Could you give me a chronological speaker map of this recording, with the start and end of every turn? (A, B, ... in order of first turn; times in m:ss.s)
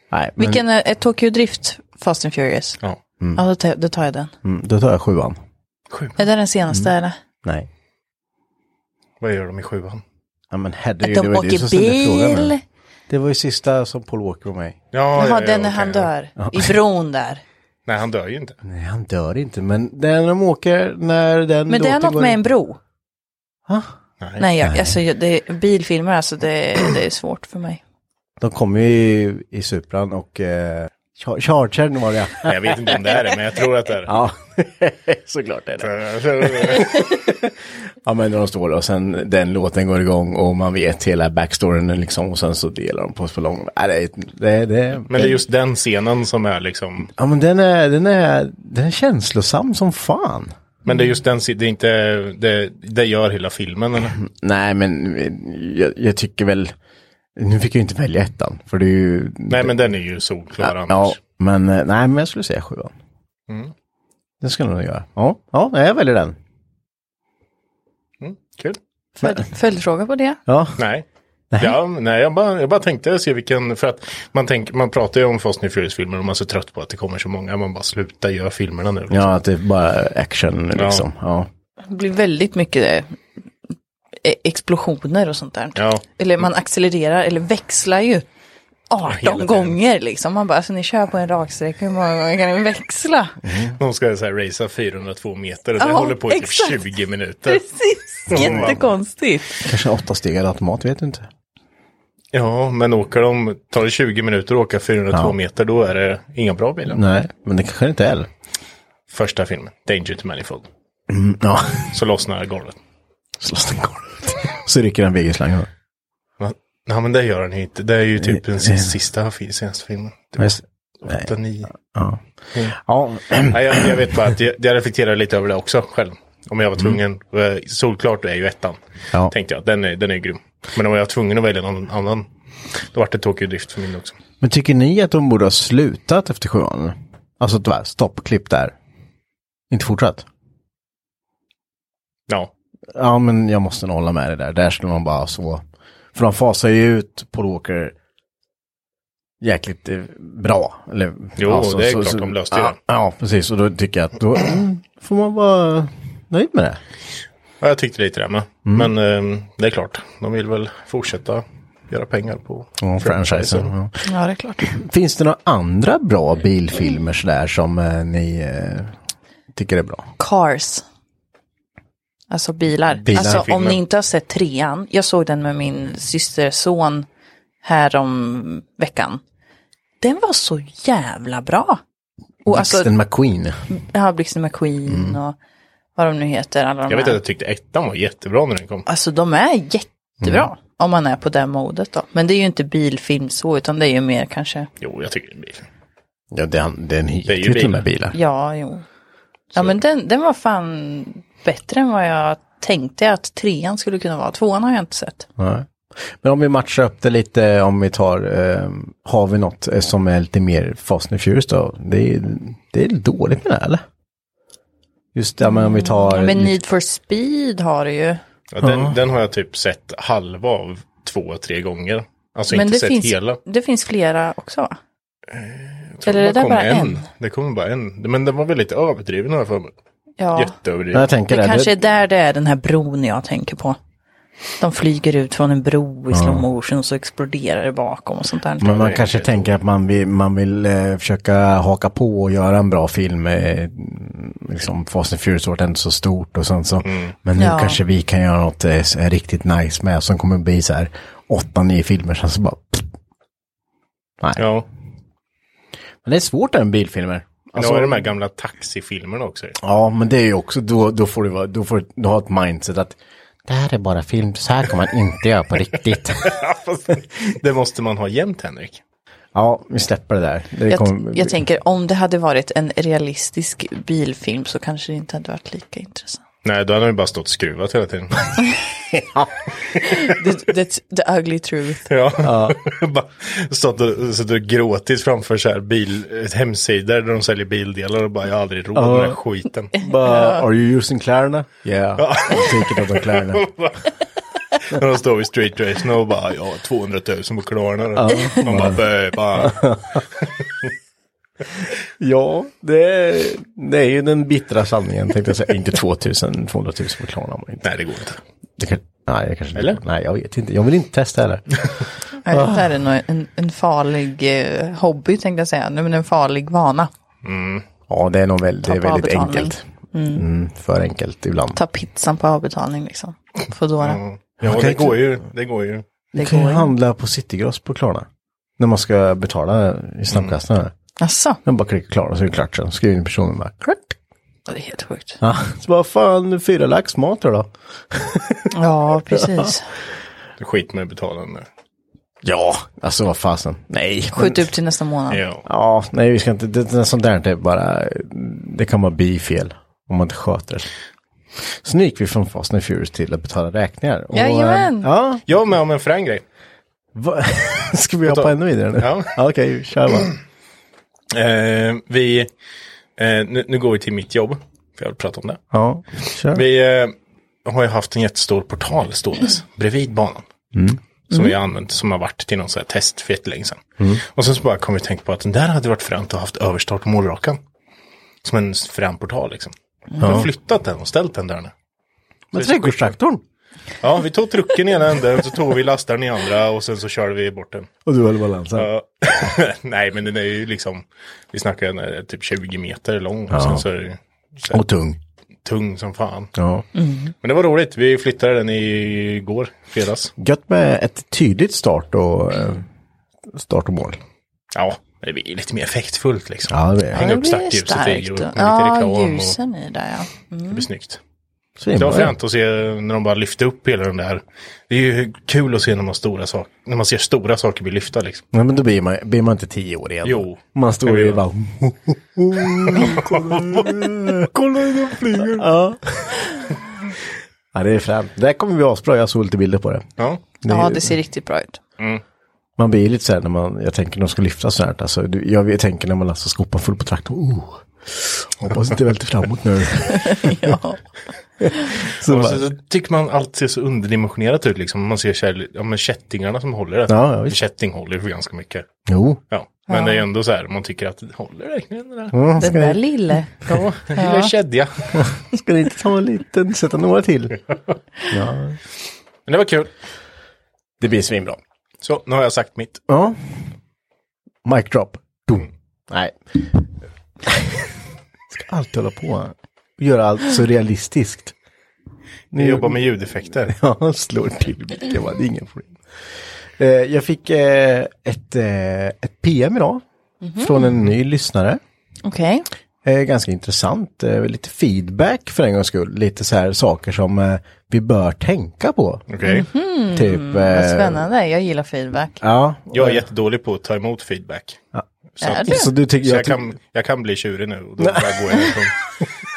0:00.1-0:00.6 A
0:00.4-0:02.8 B
0:03.4-0:04.3 B
0:04.4-0:05.4 A
0:05.9-0:06.2 C
0:06.2-0:07.2 B
0:09.2-0:10.0 C
0:10.5-0:12.5 A
0:11.0-0:12.6 B
0:13.1-0:14.8 A
0:14.9-0:16.1 C
0:15.2-0:17.4 B
0:16.4-0:16.8 A
0:17.9-0:18.6 C
0:18.6-0:22.4 A
0:21.7-0:22.8 B
0:23.7-0:23.9 A
0:24.4-0:27.8 B
0:24.6-0:25.0 A
0:28.4-0:33.2 A
0:32.4-0:34.1 C
0:34.1-0:45.4 A
0:35.8-0:36.9 C
0:45.1-0:47.1 C
0:47.1-0:50.5 A
0:50.9-0:54.2 C
0:54.2-0:56.7 A
0:57.4-0:59.7 A
0:59.5-1:01.2 C
1:00.6-1:02.9 A
1:04.4-1:06.4 A
1:08.2-1:08.8 C
1:09.2-1:10.4 B
1:10.5-1:10.8 A
1:10.8-1:11.0 C
1:11.5-1:11.8 A
1:11.6-1:19.3 C
1:19.1-1:21.5 A
1:20.7-1:21.0 C
1:21.8-1:23.2 B
1:24.2-1:28.3 B
1:25.8-1:26.0 C
1:28.9-1:33.4 B
1:29.1-1:29.8 C
1:33.4-1:33.8 A
1:33.8-1:37.6 C
1:35.8-1:36.8 B
1:37.5-1:39.7 B
1:38.3-1:38.8 A
1:38.3-1:38.8 C
1:39.6-1:41.3 A
1:42.3-1:47.0 C
1:46.9-1:48.3 A
1:49.1-1:50.7 C
1:51.1-1:52.0 A
1:51.9-1:52.8 C
1:53.4-1:55.7 A
1:56.4-2:01.7 C
1:58.2-1:59.0 A
2:00.4-2:04.0 A
2:03.5-2:14.2 C
2:14.4-2:18.8 A
2:19.7-2:20.3 A
2:22.9-2:25.6 A
2:26.2-2:28.0 A
2:29.4-2:36.8 A
2:31.4-2:32.8 C
2:37.6-2:43.7 C
2:42.8-2:44.0 A
2:44.0-2:44.7 B
2:44.6-2:48.9 A
2:49.5-2:50.1 A
2:50.2-2:50.8 B
2:52.3-2:57.1 B
2:53.0-2:53.8 C
2:53.1-2:53.5 A
2:57.6-2:59.2 B
3:00.0-3:01.8 B
3:02.5-3:02.9 B
3:02.5-3:03.6 A
3:03.7-3:05.4 B
3:04.9-3:05.2 A
3:06.0-3:07.2 B
3:06.9-3:08.8 C
3:08.9-3:14.7 B
3:10.2-3:10.5 A
3:14.8-3:15.7 C
3:16.3-3:18.2 A
3:17.3-3:17.8 C
3:18.1-3:18.8 B
3:19.5-3:25.3 B
3:25.4-3:33.8 A
3:35.2-3:36.6 A
3:35.4-3:38.2 B
3:38.5-3:43.4 C
3:38.6-3:39.0 A
3:42.5-3:44.8 B
3:45.3-3:49.7 C
3:46.0-3:47.0 B
3:50.2-3:50.5 B
3:50.4-3:51.1 C
3:50.9-3:51.8 A
3:51.3-3:53.8 B
3:54.6-3:58.8 B
3:56.1-3:56.4 A
3:58.6-4:12.9 A
3:58.7-3:59.5 C
4:06.8-4:07.1 C
4:07.4-4:07.8 B
4:14.4-4:14.7 C
4:16.0-4:18.1 A
4:17.6-4:19.6 C
4:19.6-4:26.4 A
4:26.2-4:28.8 C
4:29.3-4:31.4 A
4:30.7-4:36.2 B
4:36.4-4:38.4 C
4:39.0-4:39.3 A
4:39.8-4:41.9 B
4:41.9-4:49.7 C
4:42.2-4:42.6 A
4:48.7-4:49.2 A
4:49.7-4:53.5 A
4:50.0-4:50.4 B
4:52.0-4:53.9 C
4:54.6-5:00.6 C
4:58.0-5:00.0 A
5:02.0-5:07.7 A
5:07.6-5:08.2 C
5:08.6-5:11.7 A
5:12.2-5:16.9 B
5:12.3-5:12.7 A
5:17.2-5:17.6 C
5:17.9-5:21.6 A
5:18.6-5:20.2 B
5:21.6-5:24.0 B
5:23.8-5:25.8 C
5:24.4-5:25.0 A
5:26.1-5:28.1 A
5:26.2-5:26.7 B
5:28.6-5:30.7 A
5:31.0-5:31.4 B
5:31.4-5:34.0 A
5:34.5-5:35.2 B
5:35.2-5:38.5 A
5:38.5-5:39.7 B
5:39.1-5:39.5 A
5:40.4-5:41.5 C
5:42.2-5:44.5 A
5:44.1-5:45.2 B
5:45.1-5:45.4 C
5:45.5-5:50.7 A
5:51.5-5:55.2 A
5:54.1-5:54.9 B
5:55.3-5:56.2 C
5:57.0-6:00.2 A
5:58.1-5:59.1 C
6:01.1-6:02.3 C
6:03.0-6:05.4 C
6:05.5-6:06.4 A
6:06.3-6:06.9 C
6:07.4-6:10.2 C
6:10.5-6:10.8 A
6:11.1-6:13.6 C
6:13.8-6:14.0 A
6:14.2-6:17.4 C
6:18.2-6:21.5 C
6:20.0-6:20.3 A
6:22.3-6:23.2 A
6:22.3-6:22.9 C
6:23.8-6:27.7 C
6:27.9-6:28.7 A
6:28.6-6:34.6 C
6:33.3-6:33.6 A
6:34.5-6:35.0 A
6:35.4-6:36.3 C
6:36.4-6:36.6 A
6:36.8-6:37.1 B
6:37.2-6:40.1 C
6:40.2-6:42.7 A
6:43.3-6:44.0 A
6:44.6-6:49.4 C
6:46.5-6:47.0 A
6:46.9-6:50.6 B
6:50.5-6:51.0 C
6:51.6-6:52.2 A
6:51.8-6:58.2 C
6:58.3-7:06.5 A
7:00.0-7:01.2 C
7:02.7-7:05.4 C
7:07.5-7:09.9 A
7:10.4-7:10.9 A
7:10.5-7:11.6 B
7:12.6-7:20.6 A
7:19.9-7:20.8 B
7:21.4-7:22.5 A
7:22.0-7:28.7 C
7:26.9-7:27.4 A
7:28.9-7:29.2 A
7:29.3-7:32.2 C
7:29.7-7:30.0 B
7:32.1-7:32.8 A
7:32.4-7:34.3 B
7:33.5-7:35.1 C
7:35.0-7:37.4 A
7:38.1-7:38.6 A
7:39.3-7:39.7 C
7:40.8-7:41.4 A
7:41.8-7:42.8 C
7:42.9-7:43.2 A
7:44.4-7:46.7 A
7:47.2-7:47.8 A
7:48.3-7:51.4 A
7:52.3-7:52.8 A
7:52.3-7:53.6 C
7:53.5-7:55.8 A
7:56.6-7:59.8 A
8:00.2-8:00.6 B
8:00.4-8:01.6 A
8:02.0-8:02.5 B
8:02.8-8:09.1 A
8:09.1-8:09.4 C
8:09.2-8:12.2 B
8:09.9-8:11.0 A
8:12.2-8:13.0 A
8:12.7-8:14.6 C
8:15.2-8:15.7 B
8:15.2-8:18.8 C
8:15.4-8:16.5 A
8:17.8-8:18.6 A